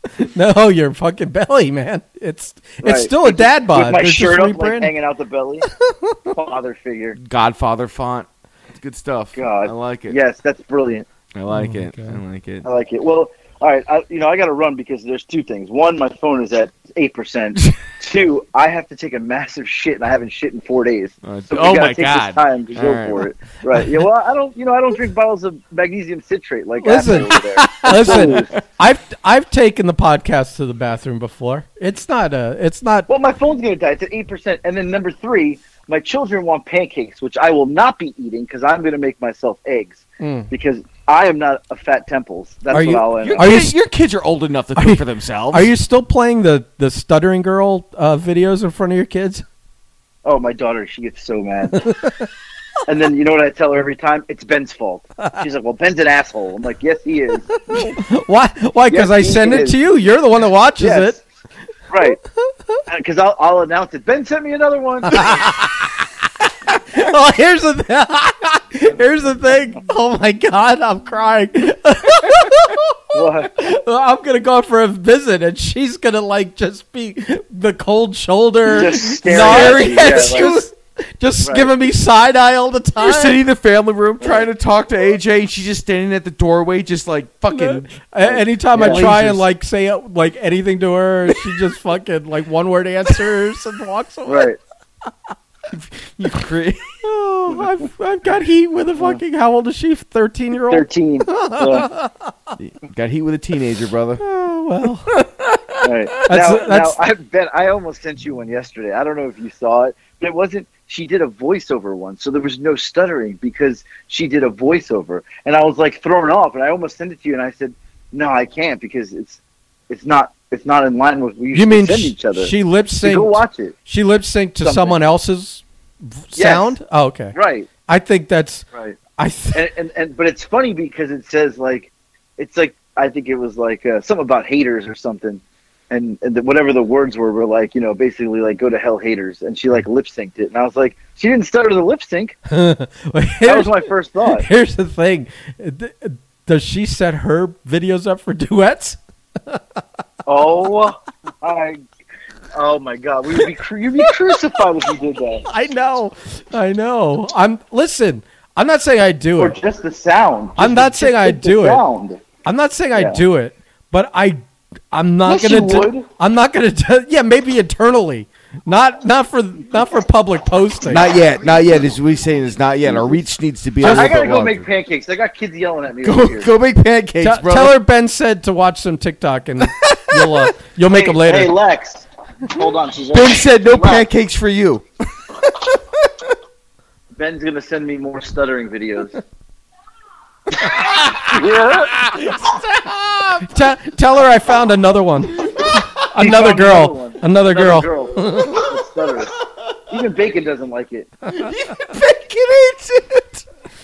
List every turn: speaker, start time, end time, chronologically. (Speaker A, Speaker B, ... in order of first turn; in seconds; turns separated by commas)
Speaker A: 0.2-4.9, Speaker B: 2.8-5.7, Speaker A: 5.8-6.2, Speaker B: 6.3-7.2, Speaker C: 7.2-10.2, Speaker B: 9.4-11.1, Speaker C: 11.3-12.7, Speaker A: 11.5-12.2, Speaker B: 12.6-28.5, Speaker C: 21.2-23.3, Speaker A: 23.7-24.0, Speaker A: 26.8-33.1, Speaker C: 27.8-28.6, Speaker B: 33.1-43.5, Speaker A: 40.2-40.5, Speaker A: 42.7-43.7, Speaker C: 43.2-45.7, Speaker A: 44.8-49.4, Speaker B: 50.2-51.9, Speaker A: 51.8-52.3, Speaker B: 52.9-57.9, Speaker A: 57.7-61.2, Speaker B: 58.9-59.8, Speaker B: 60.8-61.2, Speaker B: 61.9-62.2, Speaker A: 62.4-62.8, Speaker B: 62.9-65.4, Speaker A: 65.1-83.4, Speaker B: 73.1-73.6, Speaker B: 78.7-80.6, Speaker C: 79.0-80.6, Speaker B: 81.4-81.7, Speaker C: 83.0-89.5, Speaker A: 87.5-94.5, Speaker B: 88.7-89.1, Speaker B: 94.3-94.6, Speaker C: 95.7-97.0, Speaker A: 97.0-102.5, Speaker B: 100.7-101.9, Speaker C: 102.6-104.2, Speaker A: 104.2-105.2, Speaker C: 105.1-105.4, Speaker B: 105.8-119.4, Speaker A: 106.2-107.0, Speaker B: 119.9-123.8, Speaker A: 121.5-127.4, Speaker B: 124.6-125.0, Speaker B: 126.4-126.8, Speaker B: 127.3-127.7, Speaker A: 127.9-128.7, Speaker A: 129.2-129.7, Speaker B: 129.6-142.4, Speaker A: 142.5-149.8, Speaker B: 143.4-144.5, Speaker B: 150.3-151.8, Speaker B: 152.5-155.5, Speaker A: 155.4-159.6, Speaker B: 159.4-162.2, Speaker A: 160.6-161.8, Speaker A: 162.4-171.1, Speaker B: 162.9-163.2, Speaker B: 165.2-166.1, Speaker C: 170.9-174.7, Speaker B: 172.9-173.2, Speaker B: 173.8-176.5, Speaker C: 176.0-177.8, Speaker A: 177.2-181.5, Speaker C: 179.6-180.5, Speaker B: 180.9-184.1, Speaker C: 183.1-186.1, Speaker B: 187.2-189.2, Speaker B: 190.7-192.1, Speaker C: 192.0-193.4, Speaker A: 193.3-198.7, Speaker B: 196.0-201.1, Speaker A: 201.3-201.8, Speaker C: 201.3-203.4